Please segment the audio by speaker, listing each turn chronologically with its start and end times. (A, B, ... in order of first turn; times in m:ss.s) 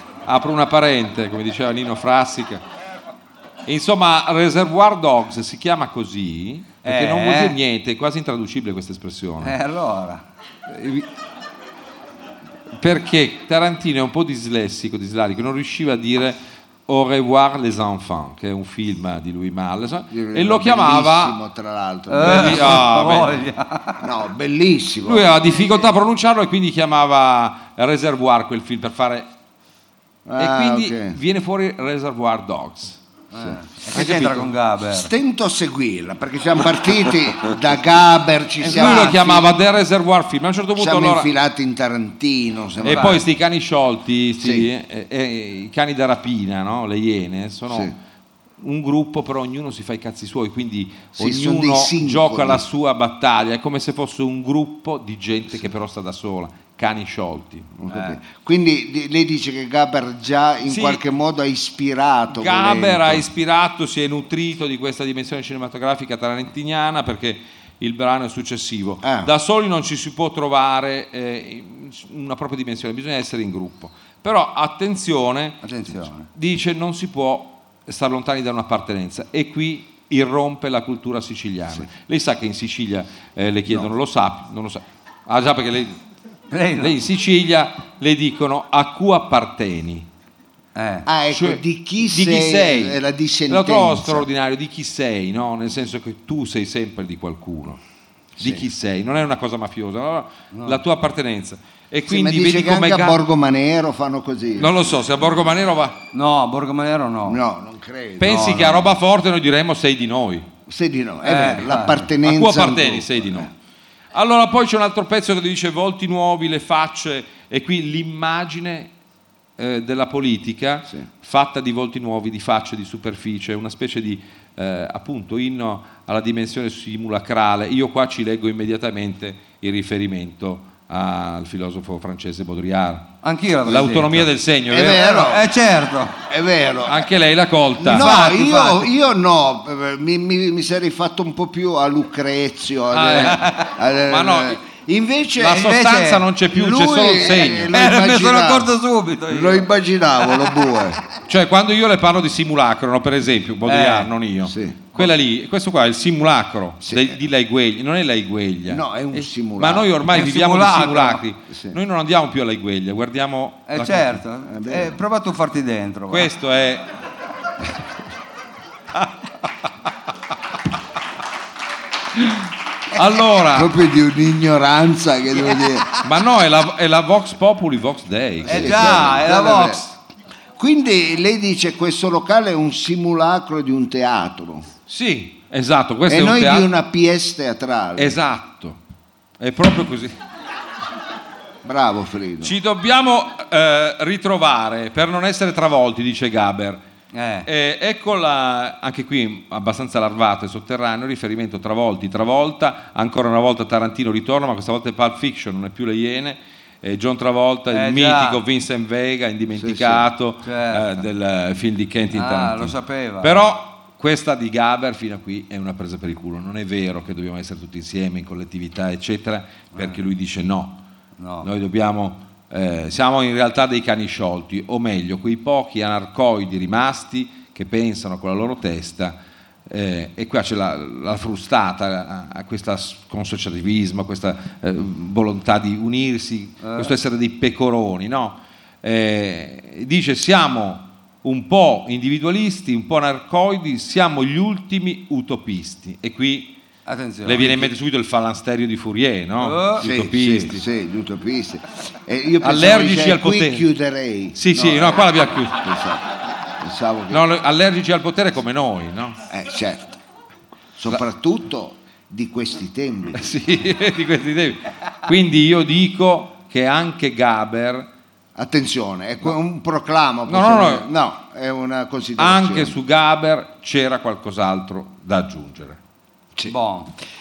0:00.3-0:02.6 A
0:03.7-0:09.6 A
0:06.8-0:07.6 B
0:09.4-0:10.2 B
0:10.7-0:11.1 A
0:12.8-0:21.4 A
0:20.1-0:22.9 C
0:22.1-0:24.0 B
0:22.2-0:23.4 A
0:24.0-0:25.3 C
0:25.0-0:29.3 A
0:30.3-0:31.2 C
0:30.4-0:33.0 A
0:33.3-0:35.1 B
0:33.9-0:34.5 A
0:34.9-0:39.5 C
0:38.6-0:41.3 A
0:38.7-0:39.2 B
0:40.8-0:43.2 C
0:42.8-0:47.9 A
0:42.9-0:43.2 B
0:44.4-0:44.7 C
0:48.6-0:58.0 A
0:51.2-0:52.6 C
0:57.8-1:03.2 C
1:00.7-1:01.0 A
1:02.3-1:15.6 A
1:09.0-1:09.3 C
1:15.6-1:16.3 B
1:16.3-1:26.0 A
1:26.5-1:27.0 B
1:26.8-1:30.1 A
1:30.8-1:31.1 B
1:31.1-1:34.3 C
1:31.3-1:37.8 A
1:38.4-1:38.7 C
1:38.4-1:43.2 A
1:40.5-1:40.8 B
1:42.1-1:44.8 C
1:44.6-1:46.0 A
1:46.1-1:47.4 B
1:47.3-1:48.6 C
1:48.2-1:50.5 A
1:48.3-1:48.8 B
1:50.7-1:53.5 C
1:51.2-1:52.1 B
1:52.2-1:53.5 A
1:54.1-1:58.9 A
1:59.6-2:13.1 A
2:13.2-2:14.3 B
2:13.7-2:15.0 A
2:14.7-2:15.5 C
2:14.9-2:16.2 B
2:16.3-2:17.1 C
2:16.9-2:18.1 A
2:17.8-2:25.8 C
2:17.9-2:18.9 B
2:22.9-2:24.6 A
2:23.3-2:23.7 B
2:25.4-2:27.8 A
2:25.5-2:26.3 B
2:26.5-2:28.7 C
2:27.7-2:29.7 B
2:29.3-2:31.0 C
2:31.3-2:44.2 A
2:33.7-2:34.1 B
2:34.5-2:34.9 C
2:36.8-2:37.2 C
2:38.7-2:39.9 C
2:40.1-2:41.2 B
2:41.5-2:41.8 C
2:43.7-2:46.3 B
2:44.5-2:45.0 C
2:46.1-2:46.9 A
2:52.9-2:53.7 A
2:53.5-2:56.0 C
2:56.0-2:59.2 A
2:58.4-2:59.8 C
2:58.5-2:59.9 B
3:00.6-3:04.7 C
3:04.9-3:06.7 A
3:06.1-3:08.2 C
3:08.0-3:08.8 A
3:09.4-3:10.2 A
3:11.6-3:12.5 C
3:12.4-3:16.8 A
3:17.1-3:17.5 B
3:17.4-3:40.8 A
3:27.7-3:28.4 B
3:29.6-3:30.1 C
3:30.4-3:31.0 B
3:32.1-3:33.5 B
3:41.2-3:41.5 B
3:41.4-4:06.6 A
3:56.6-3:56.9 B
4:06.9-4:07.7 B
4:07.2-4:10.6 A
4:09.4-4:09.8 B
4:09.8-4:17.2 C
4:12.4-4:13.7 A
4:14.3-4:15.7 A
4:17.1-4:19.2 A
4:19.3-4:20.0 C
4:20.8-4:23.2 C
4:23.2-4:27.9 A
4:28.4-4:32.8 C
4:30.3-4:30.9 A
4:32.2-4:35.8 A
4:36.5-4:36.9 B